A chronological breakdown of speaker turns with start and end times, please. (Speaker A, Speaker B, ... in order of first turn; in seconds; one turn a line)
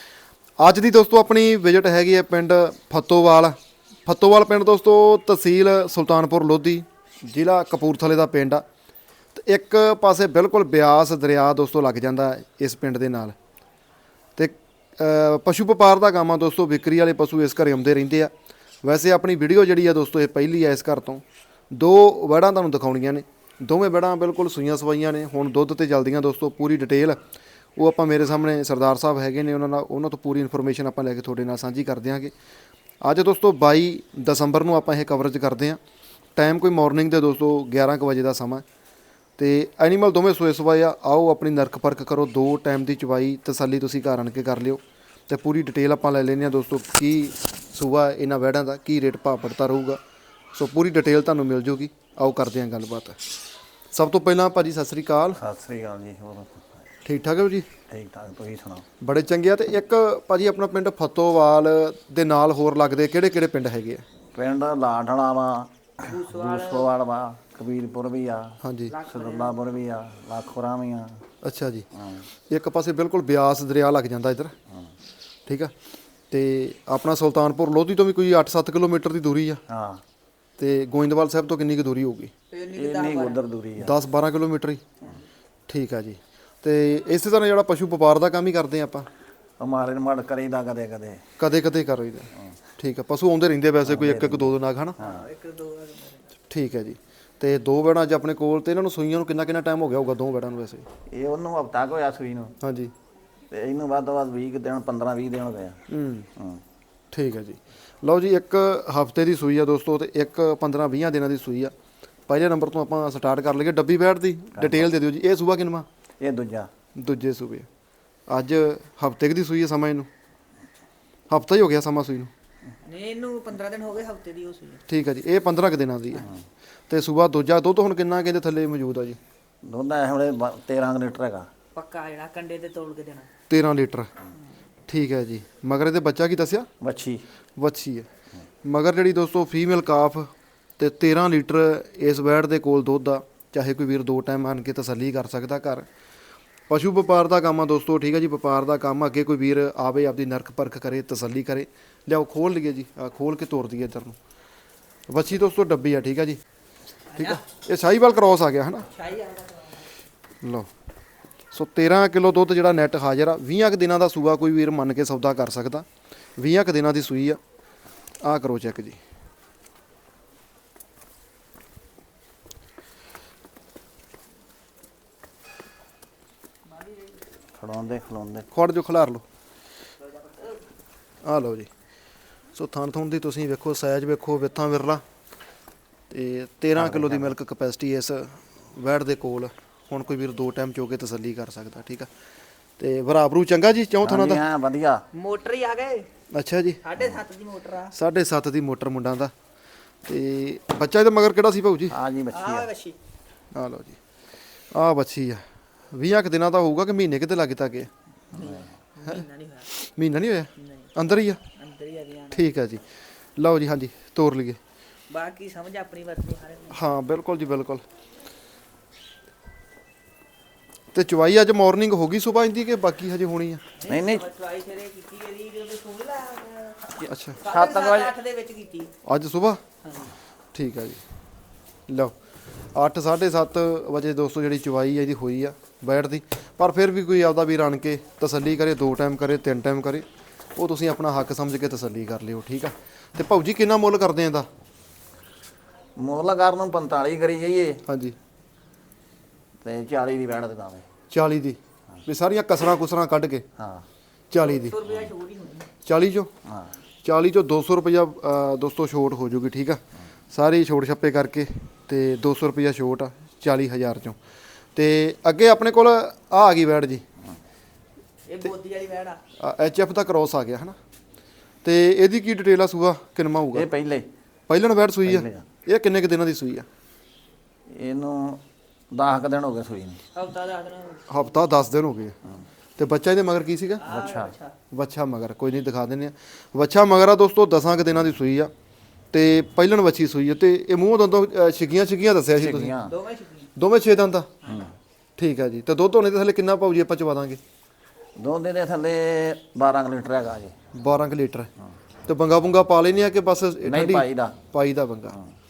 Speaker A: 0.6-8.6
Speaker A: 9.3-13.3
Speaker A: 14.3-18.3
Speaker A: 18.8-27.2
Speaker A: 27.8-32.3
Speaker A: 33.0-35.8
Speaker A: 36.4-38.6
Speaker A: 39.4-50.0
Speaker A: 50.5-53.2
Speaker A: 53.9-55.4
Speaker B: 55.4-56.6
Speaker A: 57.0-57.7
Speaker B: 57.9-58.8
Speaker A: 59.0-64.0
Speaker B: 64.3-71.2
Speaker C: 66.1-66.9
Speaker A: 68.6-68.9
Speaker C: 68.9-69.6
Speaker A: 71.4-71.9
Speaker B: 71.9-72.2
Speaker A: 72.5-74.5
Speaker A: 75.5-75.7
Speaker A: 76.3-79.6
Speaker B: 79.7-80.0
Speaker A: 80.6-82.3
Speaker C: 82.5-83.4
Speaker B: 82.7-83.9
Speaker A: 83.8-84.8
Speaker A: 85.7-89.1
Speaker B: 89.6-91.2
Speaker A: 91.4-95.0
Speaker B: 93.8-95.2
Speaker C: 95.0-96.3
Speaker A: 96.5-100.8
Speaker B: 101.1-102.5
Speaker A: 102.6-102.9
Speaker B: 103.5-105.8
Speaker A: 105.9-106.3
Speaker B: 106.3-106.6
Speaker A: 107.1-111.7
Speaker A: 112.3-115.8
Speaker B: 114.5-114.9
Speaker B: 116.2-116.7
Speaker A: 117.0-117.7
Speaker A: 118.3-120.1
Speaker A: 121.3-122.3
Speaker C: 122.8-124.8
Speaker A: 124.9-126.3
Speaker A: 126.9-129.2
Speaker B: 129.6-131.5
Speaker C: 131.7-133.3
Speaker A: 133.5-134.1
Speaker A: 134.9-136.7
Speaker B: 136.8-137.2
Speaker A: 137.6-138.1
Speaker A: 138.6-145.9
Speaker A: 146.7-154.2
Speaker A: 155.1-156.4
Speaker C: 157.1-157.4
Speaker A: 157.2-158.9
Speaker C: 158.8-159.9
Speaker A: 160.4-160.7
Speaker A: 161.5-165.8
Speaker A: 166.4-167.4
Speaker A: 168.2-169.0
Speaker C: 176.7-177.1
Speaker B: 177.6-178.5
Speaker A: 178.5-179.2
Speaker A: 181.2-181.7
Speaker A: 182.5-185.0
Speaker A: 186.1-192.1
Speaker B: 186.7-187.3
Speaker A: 192.8-194.4
Speaker B: 194.0-195.0
Speaker C: 195.1-196.1
Speaker A: 196.3-196.8
Speaker C: 196.8-197.9
Speaker A: 197.9-199.3
Speaker A: 200.0-201.9
Speaker B: 201.9-202.7
Speaker C: 202.3-203.0
Speaker A: 203.5-204.0
Speaker A: 204.7-207.9
Speaker B: 208.3-208.7
Speaker C: 208.4-209.7
Speaker A: 209.0-211.4
Speaker C: 210.6-210.9
Speaker C: 211.5-212.5
Speaker A: 212.3-212.8
Speaker A: 213.4-214.6
Speaker C: 215.1-216.8
Speaker A: 216.7-217.8
Speaker A: 220.9-223.6
Speaker C: 223.8-228.9
Speaker B: 223.9-224.2
Speaker B: 227.0-228.1
Speaker A: 227.0-227.4
Speaker A: 229.0-229.6
Speaker C: 229.8-230.1
Speaker A: 230.5-231.0
Speaker A: 231.9-232.1
Speaker A: 232.7-244.5
Speaker B: 245.9-247.8
Speaker A: 247.8-248.2
Speaker B: 249.6-250.8
Speaker A: 251.1-253.4
Speaker B: 253.6-253.8
Speaker A: 254.3-254.8
Speaker C: 254.4-255.7
Speaker B: 254.8-255.1
Speaker A: 255.8-256.3
Speaker B: 256.4-256.7
Speaker A: 257.0-264.2
Speaker A: 264.7-267.0
Speaker C: 268.3-269.2
Speaker A: 269.4-270.8
Speaker A: 271.6-273.7
Speaker B: 273.5-274.1
Speaker A: 274.5-276.6
Speaker B: 275.0-275.4
Speaker B: 277.7-280.0
Speaker C: 280.1-281.3
Speaker A: 281.1-282.1
Speaker A: 282.8-283.9
Speaker C: 283.8-284.6
Speaker B: 283.9-284.3
Speaker A: 284.7-288.5
Speaker A: 289.1-292.7
Speaker B: 292.4-292.9
Speaker C: 292.9-293.5
Speaker A: 293.6-294.3
Speaker B: 294.4-294.7
Speaker A: 295.2-297.4
Speaker B: 298.2-300.5
Speaker A: 300.7-301.5
Speaker A: 302.1-305.1
Speaker B: 303.6-304.4